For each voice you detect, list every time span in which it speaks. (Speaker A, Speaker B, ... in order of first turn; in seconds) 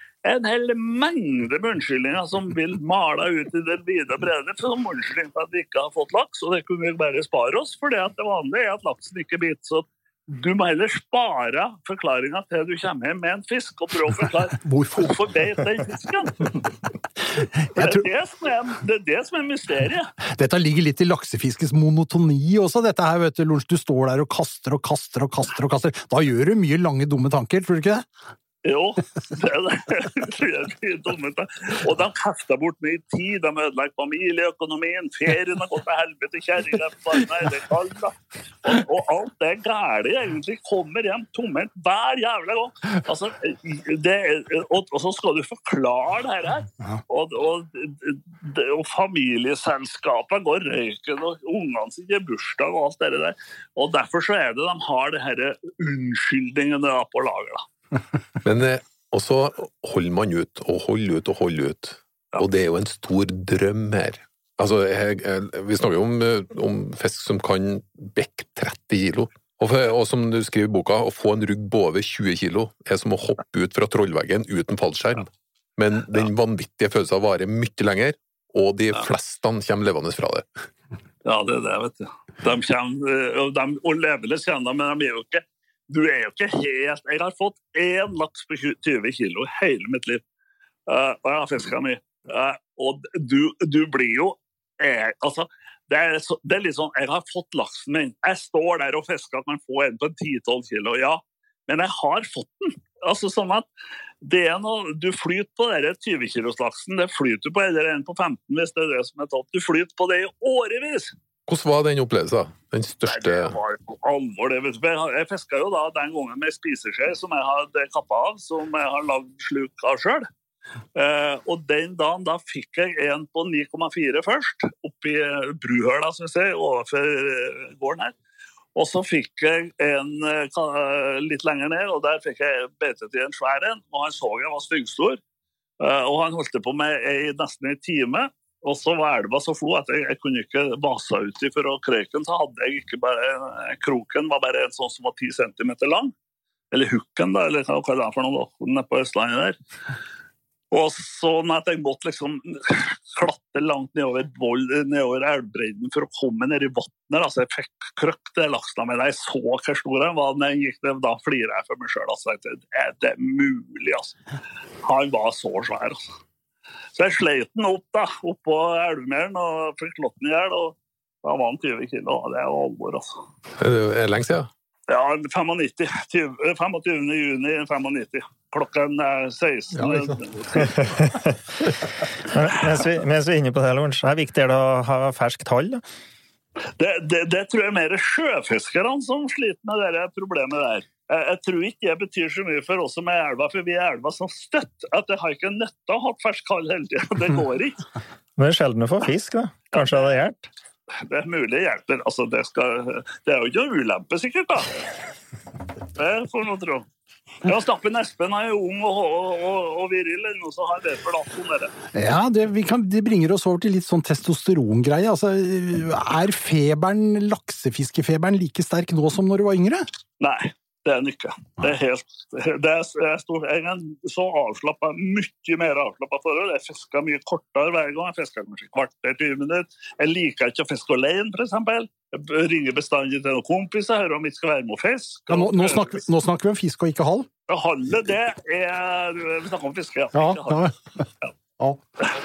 Speaker A: 0.2-16.6, 17.7-20.1, 28.6-57.7, 81.2-90.2, 90.9-103.7, 104.2-111.1, 113.1-120.2, 120.9-128.1, 128.7-135.2, 135.8-146.1, 146.7-149.6, 150.7-164.2, 164.8-166.0, 166.9-173.2, 174.9-181.1, 186.8-197.8, 199.7-200.1, 201.1-204.9, 205.9-206.9, 207.4-211.7, 220.2-236.0, 237.5-241.3
Speaker B: 14.6-15.1, 17.6-18.1, 20.3-28.1, 211.9-219.9, 235.3-237.3, 240.1-241.0
Speaker C: 58.4-80.5, 111.5-113.5, 173.6-174.5
Speaker D: 180.6-185.8, 198.4-200.5